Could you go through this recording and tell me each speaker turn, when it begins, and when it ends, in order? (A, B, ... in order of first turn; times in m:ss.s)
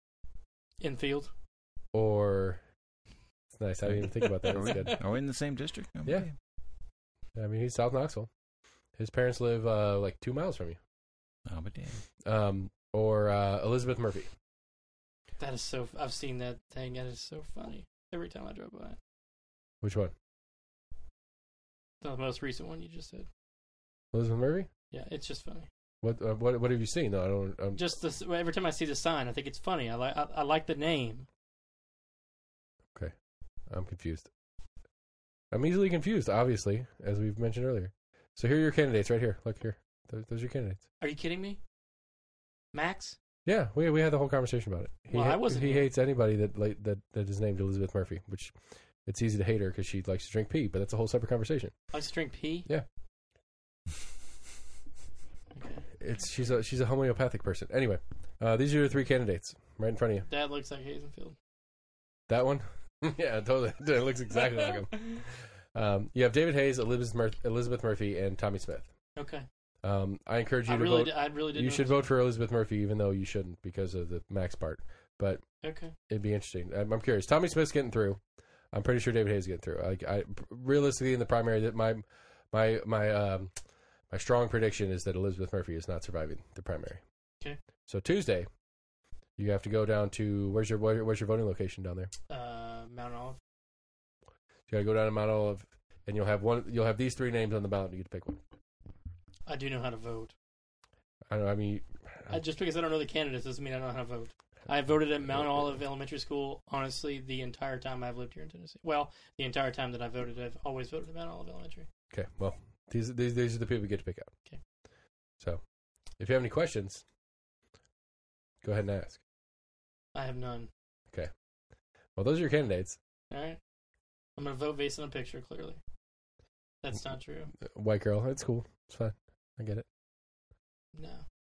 0:00.8-0:01.3 A
0:01.9-0:02.6 B
0:03.5-0:05.0 B
0:03.9-0:06.3 C
0:04.4-0:04.9 A
0:06.0-0:06.3 B
0:07.4-0:08.3 B
0:08.9-0:10.8 B
0:11.4-0:12.0 C
0:12.2-0:14.3 B
0:15.4-0:19.0 A
0:19.8-0:20.1 B
0:22.0-0:23.3 A
0:24.1-0:24.7 B
0:24.9-0:25.7 A
0:26.0-0:27.8 B
0:27.7-0:31.3 A
0:33.7-0:34.3 B
0:35.5-0:40.8 B
0:41.0-0:41.6 A
0:42.7-0:43.2 A
0:43.4-0:51.9 B
0:45.1-0:45.9 A
0:51.9-0:52.7 A
0:55.5-0:55.8 A
0:56.0-1:00.3 B
1:00.3-1:01.4 A
1:02.3-1:08.9 B
1:09.2-1:09.5 A
1:09.8-1:15.5 B
1:10.7-1:12.0 A
1:15.6-1:15.9 A
1:16.1-1:18.2 B
1:18.7-1:23.5 B
1:24.1-1:27.0 B
1:27.9-1:28.5 B
1:29.4-1:32.1 B
1:32.3-1:33.4 A
1:34.7-1:38.4 B
1:39.5-1:40.3 A
1:41.3-1:42.3 B
1:42.3-1:51.9 A
1:45.3-1:45.7 B
1:52.1-1:54.3 B
1:56.2-1:57.0 B
1:58.6-1:59.2 B
2:00.1-2:00.7 A
2:02.2-2:03.0 B
2:03.3-2:03.6 A
2:04.4-2:05.8 A
2:06.8-2:07.5 A
2:07.6-2:09.8 B
2:10.9-2:11.2 A